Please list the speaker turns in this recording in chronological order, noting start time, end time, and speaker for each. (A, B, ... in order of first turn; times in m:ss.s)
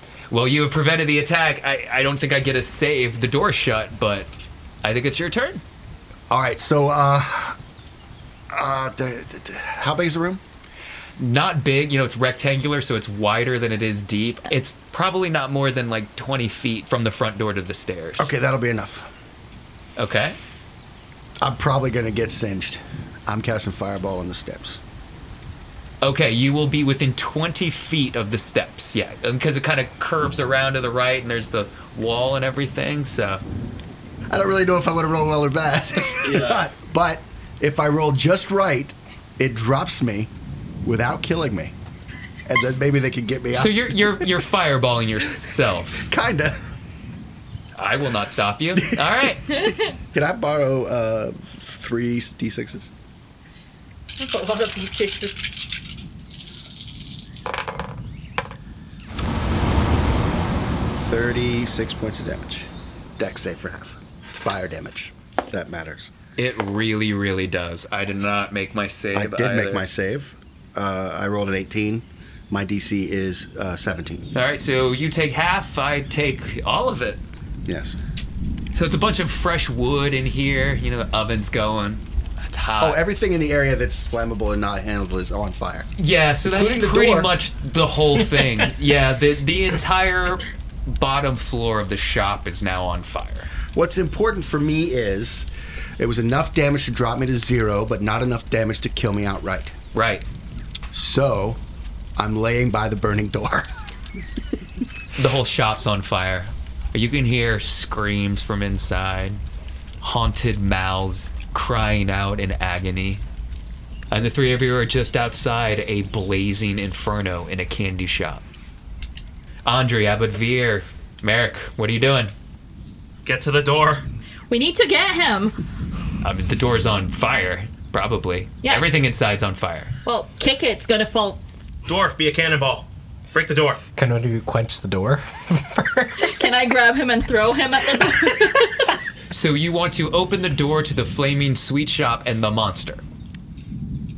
0:00.3-0:04.3 A
0:04.8-0:05.6 A
0:06.3-0:07.6 B
0:08.5-0:10.4 B
0:11.2-0:18.3 A
0:18.2-0:19.1 B
0:20.0-0:20.4 A
0:21.4-0:24.8 B
0:26.0-0:33.4 A
0:34.3-0:40.3 B
0:40.8-0:41.8 B
0:42.5-0:43.9 B
0:43.5-0:46.1 A
0:46.0-0:46.6 B
0:47.8-0:49.5 A
0:48.8-0:52.9 B
0:54.2-0:55.6 C
1:01.0-1:06.1 B
1:06.4-1:09.9 A
1:09.1-1:14.3 B
1:14.3-1:17.2 A
1:17.7-1:18.0 B
1:18.7-1:23.0 A
1:22.8-1:25.9 B
1:26.0-1:33.5 A
1:26.4-1:27.3 B
1:33.7-1:35.5 B
1:36.0-1:39.8 B
1:39.9-1:40.2 A
1:40.9-1:41.6 B
1:42.2-1:43.7 B
1:45.2-1:49.4 A
1:50.0-1:53.2 A
1:54.1-1:58.4 A
1:59.7-2:02.3 A
2:03.2-2:04.1 D
2:04.5-2:05.6 C
2:06.2-2:09.9 A
2:10.0-2:11.4 C
2:11.9-2:13.8 D
2:14.0-2:16.5 E
2:16.2-2:18.9 C
2:19.3-2:23.0 A